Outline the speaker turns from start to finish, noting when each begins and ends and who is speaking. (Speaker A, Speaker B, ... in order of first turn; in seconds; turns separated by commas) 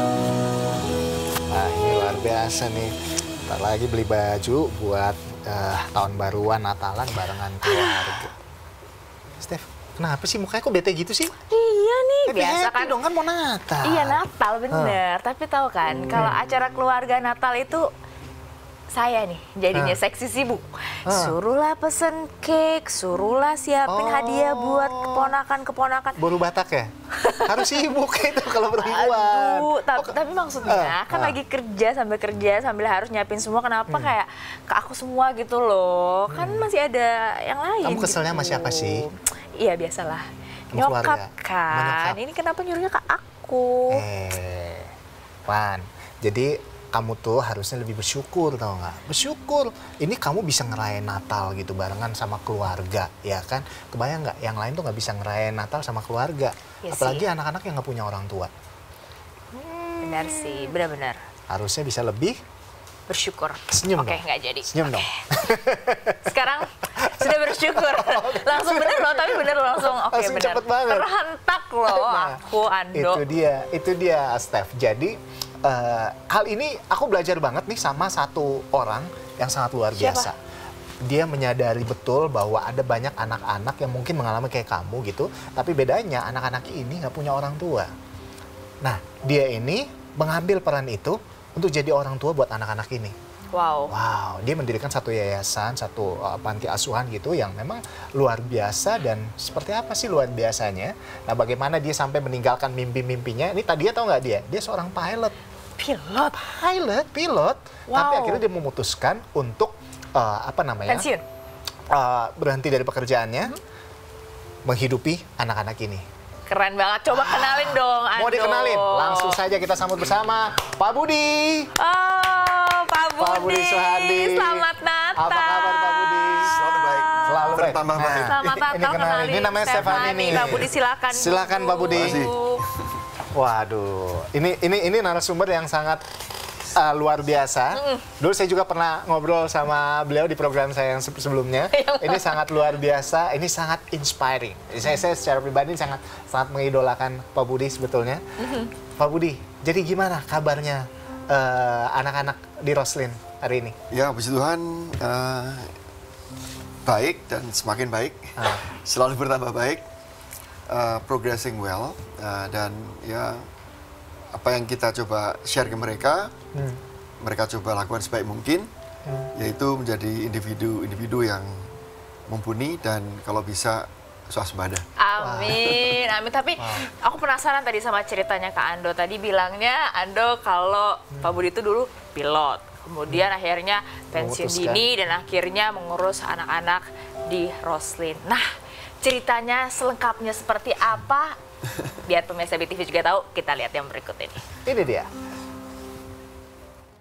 Speaker A: 1.5-8.3, Speaker B: 7.6-8.3, Speaker A: 9.4-11.3, Speaker B: 11.5-13.0, Speaker A: 12.3-15.0, Speaker B: 13.8-17.9, Speaker A: 16.1-16.4, Speaker B: 18.9-26.2, Speaker A: 19.7-20.0, Speaker A: 21.1-21.4, Speaker A: 23.9-25.3, Speaker A: 26.2-31.4, Speaker B: 27.2-27.7, Speaker B: 28.8-44.0, Speaker A: 33.9-34.2, Speaker A: 36.3-36.7, Speaker A: 37.8-39.0, Speaker A: 40.7-42.2, Speaker A: 43.9-44.9, Speaker A: 45.5-58.5, Speaker B: 56.8-57.2, Speaker A: 59.5-60.5, Speaker B: 60.0-61.2, Speaker A: 61.5-62.4, Speaker B: 63.1-65.2, Speaker A: 63.7-66.3, Speaker B: 66.3-73.2, Speaker A: 67.0-71.1, Speaker A: 71.9-72.4, Speaker A: 72.9-80.4, Speaker B: 80.0-80.3, Speaker A: 81.0-87.9, Speaker A: 88.8-93.1, Speaker B: 93.5-93.9, Speaker A: 93.9-105.3, Speaker B: 105.8-106.4, Speaker A: 106.3-111.1, Speaker B: 107.9-108.4, Speaker B: 110.9-111.2, Speaker A: 111.9-113.5, Speaker A: 114.6-116.0, Speaker B: 116.5-119.4, Speaker A: 117.1-121.7, Speaker B: 121.8-132.6, Speaker A: 123.2-126.6, Speaker C: 126.4-128.4, Speaker A: 127.2-132.3, Speaker C: 129.9-130.3, Speaker C: 131.9-132.4, Speaker A: 133.3-136.0, Speaker A: 136.7-148.2, Speaker B: 137.7-138.0, Speaker B: 141.7-142.4, Speaker B: 148.4-148.7, Speaker A: 149.0-153.8, Speaker C: 153.9-155.7, Speaker C: 156.8-159.8, Speaker A: 158.4-158.7, Speaker C: 160.7-163.4, Speaker C: 164.3-166.3, Speaker A: 166.5-166.8, Speaker C: 167.2-168.7, Speaker C: 169.3-171.7, Speaker C: 172.3-174.8, Speaker B: 175.0-188.4, Speaker A: 175.2-175.6, Speaker C: 175.7-175.9, Speaker A: 176.6-176.9, Speaker A: 184.1-184.9, Speaker B: 189.0-191.3, Speaker B: 192.0-194.4, Speaker A: 194.7-195.1